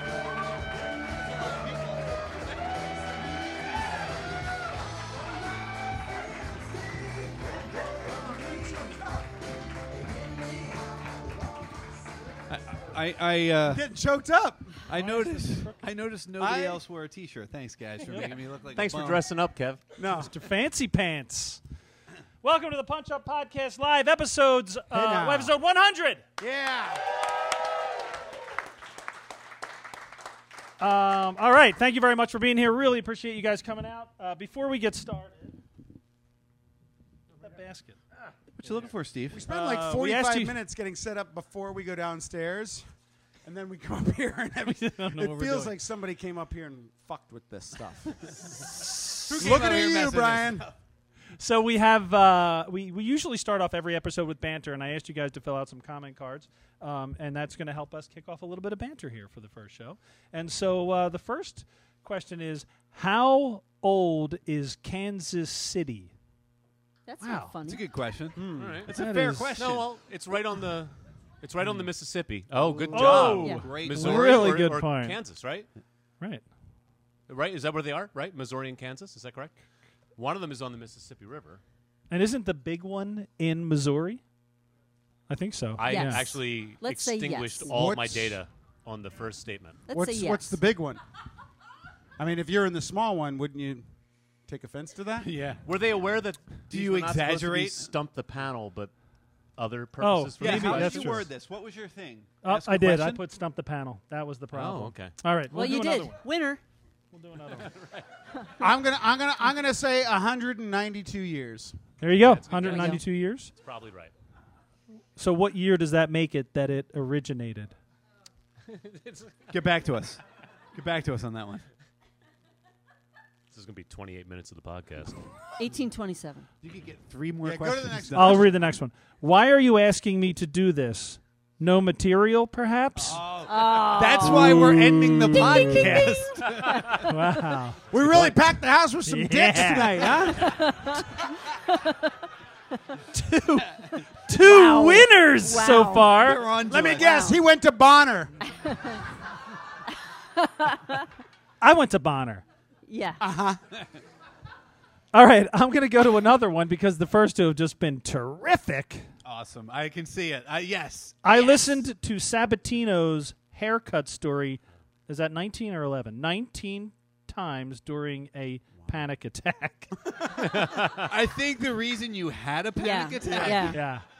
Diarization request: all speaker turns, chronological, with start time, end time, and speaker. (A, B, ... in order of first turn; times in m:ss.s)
0:08.0-0:09.2 A
0:12.5-0:13.8 B
0:13.7-0:14.8 A
0:14.9-0:19.2 B
0:14.9-0:15.8 C
0:16.4-0:16.8 A
0:18.1-0:18.3 C
0:18.1-0:19.8 D
0:20.0-0:20.3 A
0:20.1-0:21.6 C
0:22.4-0:26.2 C
0:24.9-0:25.5 A
0:26.4-0:27.0 A
0:30.8-0:35.6 C
0:37.4-0:38.9 C
0:38.5-0:39.4 B
0:39.3-0:42.8 A
0:39.5-0:40.6 C
0:43.4-0:48.7 A
0:44.6-0:45.8 C
0:48.8-0:49.3 C
0:49.3-0:50.7 B
0:49.3-0:50.7 A
0:51.4-1:06.1 C
1:07.1-1:07.9 E
1:07.2-1:07.6 C
1:07.6-1:09.9 B
1:08.4-1:08.8 A
1:08.5-1:08.9 D
1:08.9-1:09.6 C
1:09.6-1:15.7 D
1:12.6-1:14.7 B
1:12.9-1:15.2 C
1:13.4-1:13.7 E
1:17.3-1:19.6 D
1:20.2-1:21.6 D
1:22.1-1:24.2 C
1:25.3-1:26.3 C
1:25.8-1:29.8 D
1:25.9-1:27.7 E
1:27.7-1:28.4 A
1:29.9-1:30.6 E
1:29.9-1:31.0 A
1:32.2-1:33.8 A
1:34.5-1:35.3 A
1:35.2-1:35.6 B
1:35.6-1:38.9 D
1:36.7-1:37.9 B
1:39.6-1:41.3 D
1:40.0-1:41.3 C
1:40.4-1:43.2 B
1:42.4-1:46.3 C
1:44.5-1:45.1 D
1:45.5-1:46.6 E
1:47.1-1:47.7 C
1:47.6-1:48.0 D
1:48.6-1:51.8 A
1:52.0-1:53.5 C
1:52.2-1:53.0 D
1:52.6-1:53.0 E
1:53.6-1:54.1 D
1:55.2-1:57.8 C
1:58.7-1:59.5 D
1:59.5-2:00.2 B
2:00.8-2:01.7 B
2:03.5-2:05.2 D
2:05.6-2:06.5 E
2:06.6-2:08.6 B
2:07.4-2:08.5 A
2:08.1-2:13.2 C
2:13.0-2:17.2 B
2:13.4-2:14.8 E
2:14.5-2:16.0 A
2:15.4-2:17.1 E
2:16.9-2:17.8 C
2:17.9-2:20.7 A
2:18.0-2:18.4 B
2:19.0-2:20.3 C
2:20.3-2:22.2 E
2:23.1-2:26.4 C
2:24.4-2:26.2 E
2:26.1-2:27.1 B
2:26.7-2:28.4 A
2:26.9-2:27.4 E
2:28.6-2:29.0 E
2:30.4-2:31.1 E
2:31.6-2:32.4 C
2:32.9-2:33.2 E
2:33.2-2:33.6 A
2:35.1-2:39.1 C
2:39.2-2:41.2 B
2:41.2-2:50.0 C
2:41.4-2:41.7 E
2:50.2-2:53.8 B
2:50.4-2:51.2 D
2:52.8-2:53.8 E
2:53.7-2:54.0 C